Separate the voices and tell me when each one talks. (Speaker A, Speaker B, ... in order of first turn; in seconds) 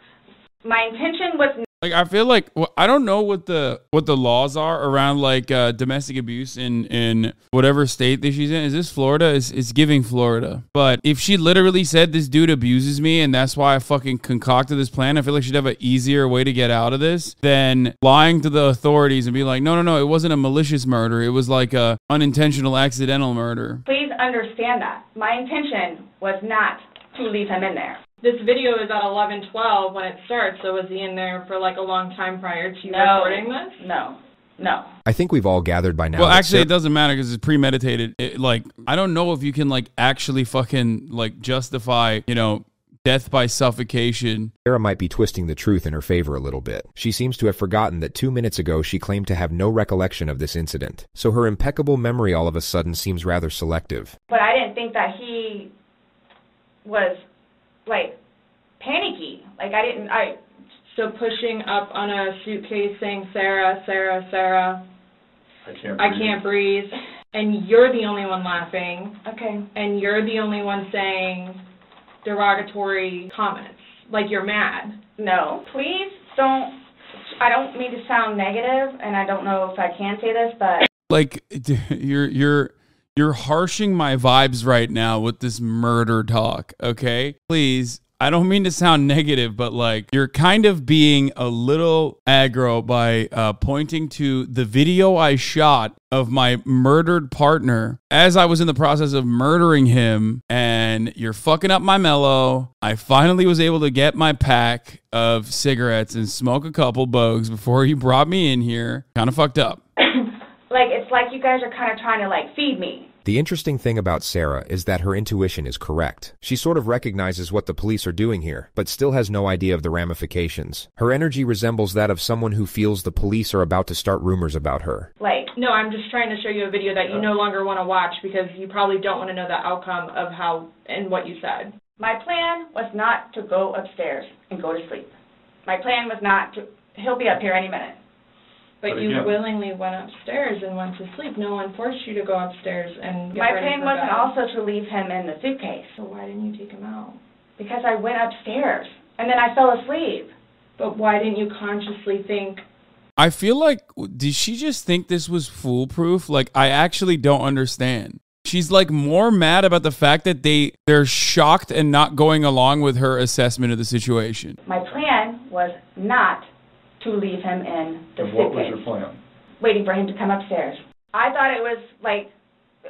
Speaker A: 0.6-1.6, 23.9-28.0, 32.8-34.9, 54.3-55.7, 56.9-57.2, 57.9-58.1, 58.8-60.4, 69.2-69.6, 75.2-76.7, 77.4-80.9, 110.7-113.1, 125.2-125.5, 132.0-135.1, 135.7-138.0, 143.3-146.0, 147.6-150.3, 164.7-166.4, 167.0-168.8, 169.6-172.3
Speaker B: 1.8-23.8, 36.2-44.5, 81.1-109.8, 153.2-164.6
Speaker C: 28.2-33.8, 60.9-64.8, 66.0-69.2, 69.8-71.6, 72.2-75.0, 125.5-131.7, 138.8-144.3, 146.0-147.2, 150.8-152.6
Speaker D: 35.1-36.7, 44.6-54.2, 113.2-125.1
Speaker E: 65.6-66.4, 138.9-139.4, 168.2-169.2